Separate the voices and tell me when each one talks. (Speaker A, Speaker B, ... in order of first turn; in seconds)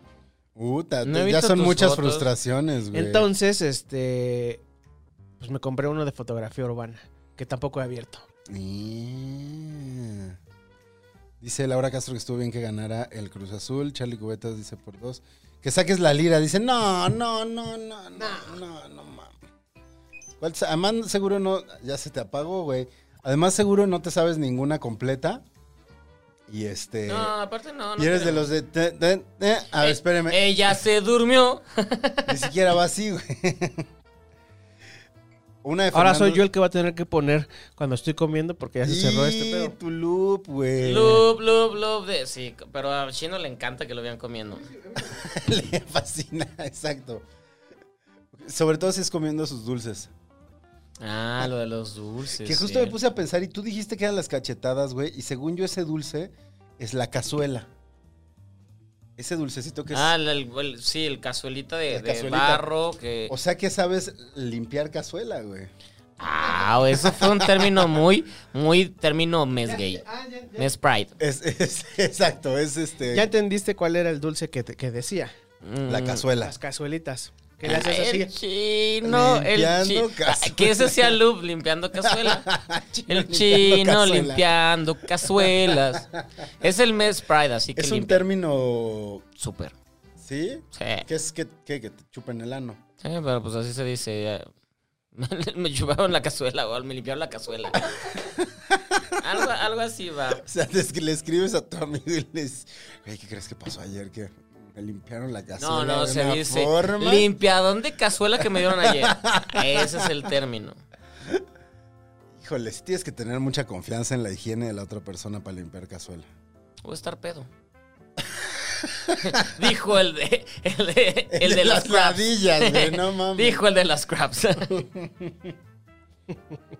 Speaker A: 0.5-3.3, 8.5-10.4, 11.4-19.4, 20.4-25.4, 26.5-27.3, 28.0-30.4, 32.3-33.9, 35.6-36.4, 38.8-41.2, 45.0-47.2, 48.3-50.1, 52.3-57.7, 59.2-60.1, 61.9-62.6, 63.3-65.7, 67.0-67.8, 71.2-73.3, 75.9-76.5, 79.0-81.2, 82.0-84.4, 85.2-86.2, 87.7-89.2, 90.2-92.8, 97.8-99.3, 100.4-107.3, 108.4-110.2, 112.3-116.3, 118.2-119.7, 121.3-123.6, 124.7-125.5
Speaker B: 1.0-2.3, 27.1-28.4, 29.8-32.5, 40.8-44.7, 51.0-52.9, 59.9-63.3, 66.2-70.0, 70.6-71.1, 75.6-76.2, 77.6-82.5, 83.1-86.1, 86.6-88.2, 89.4-89.7, 90.7-91.1, 93.0-94.5, 95.1-97.9, 99.2-100.4, 105.6-110.8, 116.8-117.5, 119.2-124.8
Speaker C: 2.9-4.6, 5.4-8.2, 18.2-18.6, 35.9-39.7, 44.6-45.2, 69.6-70.7, 73.1-75.3, 76.4-78.3